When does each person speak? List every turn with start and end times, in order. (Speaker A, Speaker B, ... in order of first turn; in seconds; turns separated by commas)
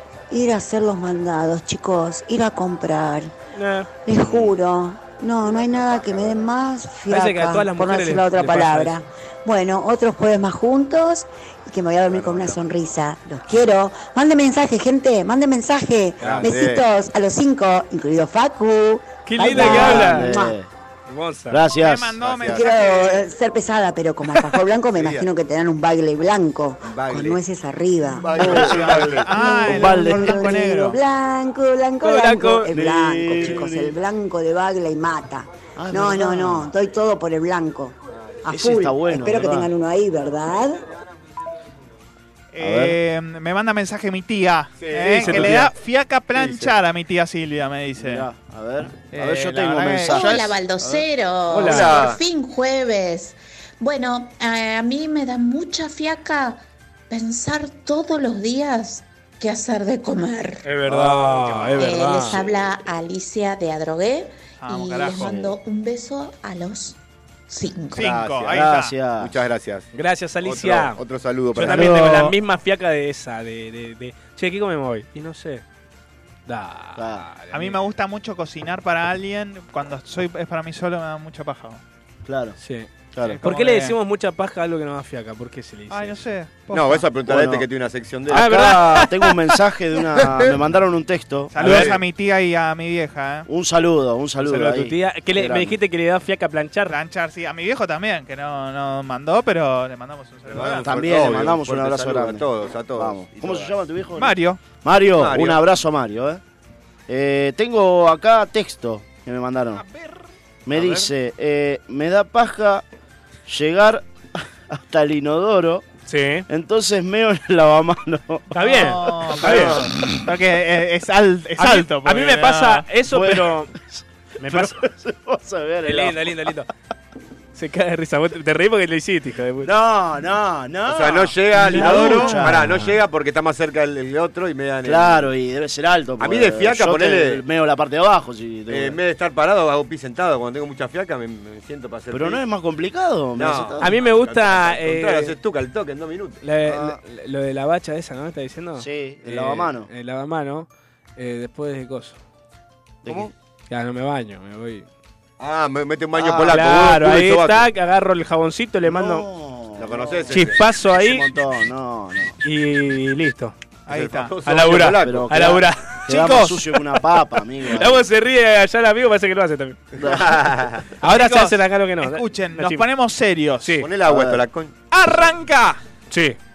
Speaker A: 0.3-3.3, Speaker B: 3.5-3.9, Speaker A: 4.0-20.6, Speaker B: 7.1-8.9, Speaker C: 12.1-12.6, Speaker C: 16.2-16.9, Speaker B: 19.2-20.3, Speaker D: 19.4-20.7, Speaker B: 21.1-21.6, Speaker D: 21.5-22.2, Speaker E: 21.8-23.2, Speaker C: 22.2-22.7, Speaker A: 22.4-37.9, Speaker C: 24.9-25.3, Speaker C: 26.8-27.4, Speaker C: 28.1-29.3, Speaker D: 28.4-29.1, Speaker E: 28.4-31.0, Speaker D: 29.6-30.4, Speaker B: 32.0-32.7, Speaker D: 32.7-34.0, Speaker D: 35.8-36.7, Speaker A: 38.4-40.8, Speaker D: 38.5-39.7, Speaker E: 42.5-48.3, Speaker D: 42.6-43.0, Speaker C: 44.8-45.6, Speaker B: 45.2-45.7, Speaker C: 46.3-46.7, Speaker D: 48.0-51.0, Speaker E: 49.1-50.6, Speaker F: 50.0-60.6, Speaker B: 51.5-52.0, Speaker C: 51.6-52.2, Speaker B: 60.6-62.4, Speaker C: 60.9-62.5, Speaker F: 61.8-67.0, Speaker E: 64.6-65.3, Speaker D: 65.2-65.5, Speaker F: 67.5-68.2, Speaker E: 67.9-68.9, Speaker C: 68.0-68.6, Speaker D: 68.4-69.3, Speaker C: 69.2-69.9, Speaker B: 69.9-71.0, Speaker C: 70.4-72.1, Speaker B: 71.5-75.6, Speaker D: 71.6-72.1, Speaker B: 76.5-77.8, Speaker D: 77.0-77.3, Speaker E: 77.5-81.8, Speaker D: 82.2-82.6, Speaker B: 82.6-82.9, Speaker D: 83.1-83.4, Speaker E: 83.2-83.9, Speaker B: 83.4-86.2, Speaker E: 85.9-87.1, Speaker C: 86.7-88.8, Speaker D: 87.3-87.7, Speaker D: 88.3-91.9, Speaker B: 88.3-89.2, Speaker C: 90.2-90.5, Speaker E: 91.5-93.5, Speaker B: 91.6-91.9, Speaker D: 93.5-95.8, Speaker B: 94.4-97.0, Speaker E: 96.9-100.9, Speaker C: 100.5-103.8, Speaker D: 100.7-106.4, Speaker E: 104.2-104.6, Speaker C: 105.2-105.6, Speaker D: 107.1-109.8, Speaker E: 109.7-110.3, Speaker D: 110.7-112.8, Speaker C: 110.7-111.1, Speaker D: 113.5-115.8, Speaker B: 116.1-116.5, Speaker D: 116.5-119.8, Speaker B: 118.5-119.8, Speaker E: 118.5-122.8, Speaker B: 121.6-123.7, Speaker D: 123.1-126.5, Speaker B: 124.4-124.8, Speaker B: 125.8-126.7, Speaker B: 127.5-129.7, Speaker D: 129.6-132.9, Speaker C: 130.9-135.3, Speaker B: 131.6-132.5, Speaker D: 134.8-139.0, Speaker C: 136.2-137.4, Speaker C: 138.7-142.4, Speaker D: 142.1-144.0, Speaker C: 143.4-146.4, Speaker B: 143.8-145.3, Speaker B: 146.4-152.2, Speaker D: 146.7-147.0, Speaker D: 148.8-149.9, Speaker D: 153.0-153.3, Speaker C: 153.1-153.3, Speaker B: 153.7-154.8, Speaker C: 155.4-157.7, Speaker D: 156.2-156.6, Speaker B: 156.4-159.2, Speaker D: 158.8-162.4, Speaker C: 159.8-160.6, Speaker B: 160.3-161.3, Speaker B: 162.4-163.5, Speaker E: 163.9-164.3, Speaker C: 163.9-165.5, Speaker B: 164.4-166.6, Speaker D: 164.9-168.1, Speaker B: 167.7-169.8, Speaker C: 170.0-170.8, Speaker D: 170.0-170.4, Speaker B: 171.0-172.8, Speaker E: 171.0-173.8, Speaker B: 173.6-173.9, Speaker C: 173.8-174.7, Speaker D: 174.1-174.4, Speaker E: 174.9-175.8, Speaker B: 176.1-176.4